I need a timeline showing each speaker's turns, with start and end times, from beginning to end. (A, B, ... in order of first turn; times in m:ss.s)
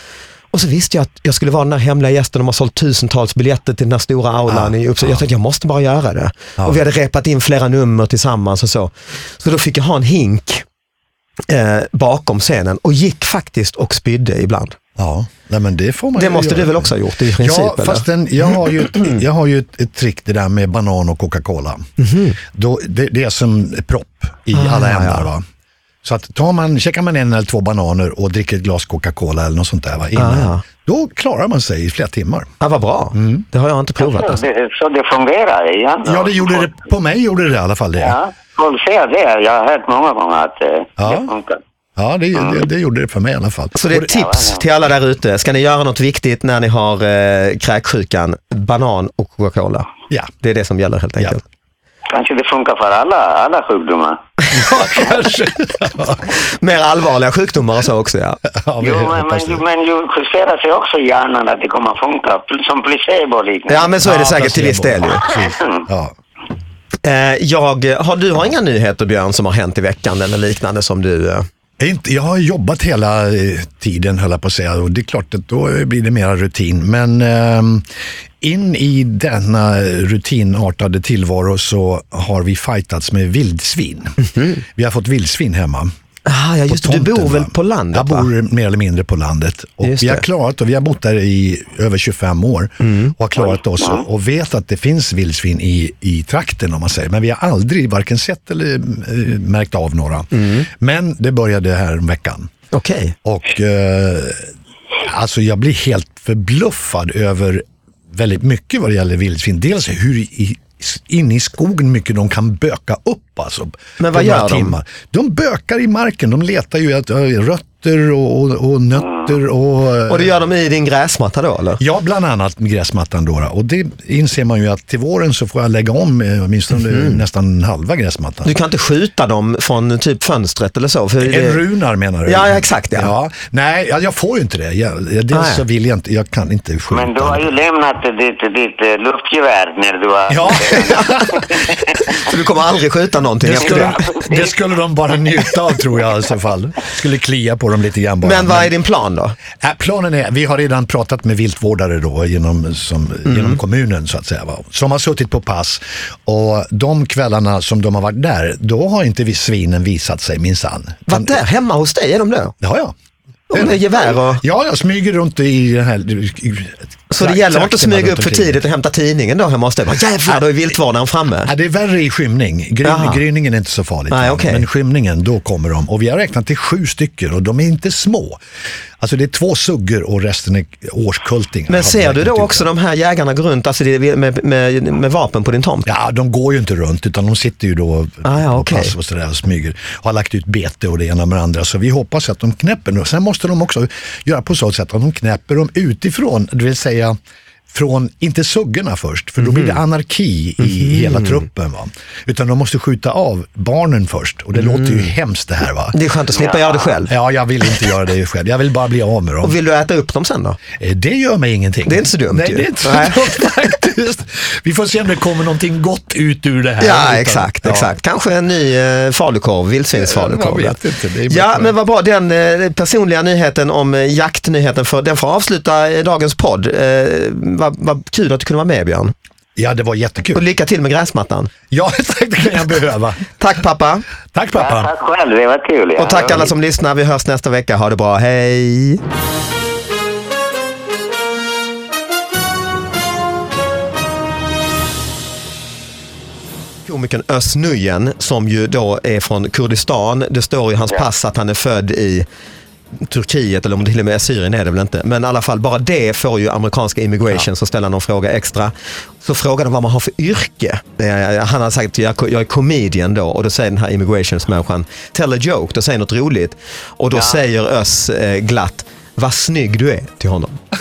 0:00.5-0:10.6 A
0:04.5-0:05.2 B
0:11.5-0:14.8 A
0:15.0-0:21.9 B
0:16.2-0:18.0 A
0:18.8-0:19.2 A
0:22.0-0:22.4 A
0:22.4-0:25.4 B
0:24.5-0:25.3 A
0:26.0-0:32.5 B
0:30.2-0:30.6 A
0:32.6-0:34.4 A
0:33.1-0:33.4 B
0:34.0-0:36.7 C
0:36.0-0:38.2 B
0:38.0-0:41.6 C
0:41.0-0:41.3 B
0:42.0-0:44.1 B
0:42.4-0:42.6 C
0:43.8-0:49.9 A
0:44.1-0:44.6 C
0:50.4-0:51.4 A
0:52.1-0:54.2 C
0:54.5-0:56.3 B
0:56.3-0:58.4 A
0:58.5-0:59.6 B
0:58.8-1:03.9 C
1:03.7-1:05.3 A
1:04.0-1:06.1 B
1:05.3-1:05.8 C
1:07.0-1:11.5 A
1:11.8-1:25.9 B
1:24.2-1:24.6 A
1:26.3-1:28.3 A
1:26.7-1:42.5 B
1:29.8-1:30.2 A
1:32.8-1:33.1 A
1:40.3-1:40.7 A
1:42.7-1:43.2 A
1:43.2-1:44.5 B
1:45.0-2:00.4 B
1:54.0-1:54.8 A
2:00.1-2:01.8 A
2:01.8-2:08.5 B
2:06.9-2:07.2 A
2:08.4-2:11.6 A
2:11.2-2:17.5 B
2:12.3-2:13.1 A
2:15.3-2:15.6 A
2:16.9-2:21.7 C
2:20.3-2:21.5 B
2:20.8-2:21.4 A
2:22.1-2:24.1 A
2:23.4-2:28.7 B
2:23.9-2:24.5 C
2:28.2-2:29.4 A
2:29.6-2:41.4 B
2:33.3-2:33.6 A
2:41.1-2:42.5 A
2:42.6-2:42.9 B
2:43.5-2:44.4 A
2:43.5-2:48.6 B
2:47.1-2:51.5 A
2:51.5-2:58.4 B
2:52.8-2:53.2 A
2:54.1-2:54.6 A
2:59.0-3:02.7 B
3:01.7-3:05.9 A
3:05.9-3:17.2 B
3:08.2-3:08.9 A
3:17.7-3:26.0 B
3:19.4-3:19.8 A
3:20.6-3:21.4 A
3:24.6-3:25.1 A
3:25.9-3:27.1 A
3:26.4-3:27.0 C
3:27.1-3:29.6 B
3:29.4-3:30.6 A
3:30.8-3:37.9 B
3:31.9-3:33.3 A
3:36.8-3:40.8 A
3:39.9-3:41.7 B
3:41.3-3:49.1 A
3:49.6-3:50.4 B
3:50.3-3:51.5 A
3:51.7-3:53.3 B
3:53.4-3:54.0 A
3:54.3-3:54.9 B
3:54.6-3:56.5 C
3:56.0-3:59.0 A
4:06.9-4:12.3 A
4:13.0-4:30.6 A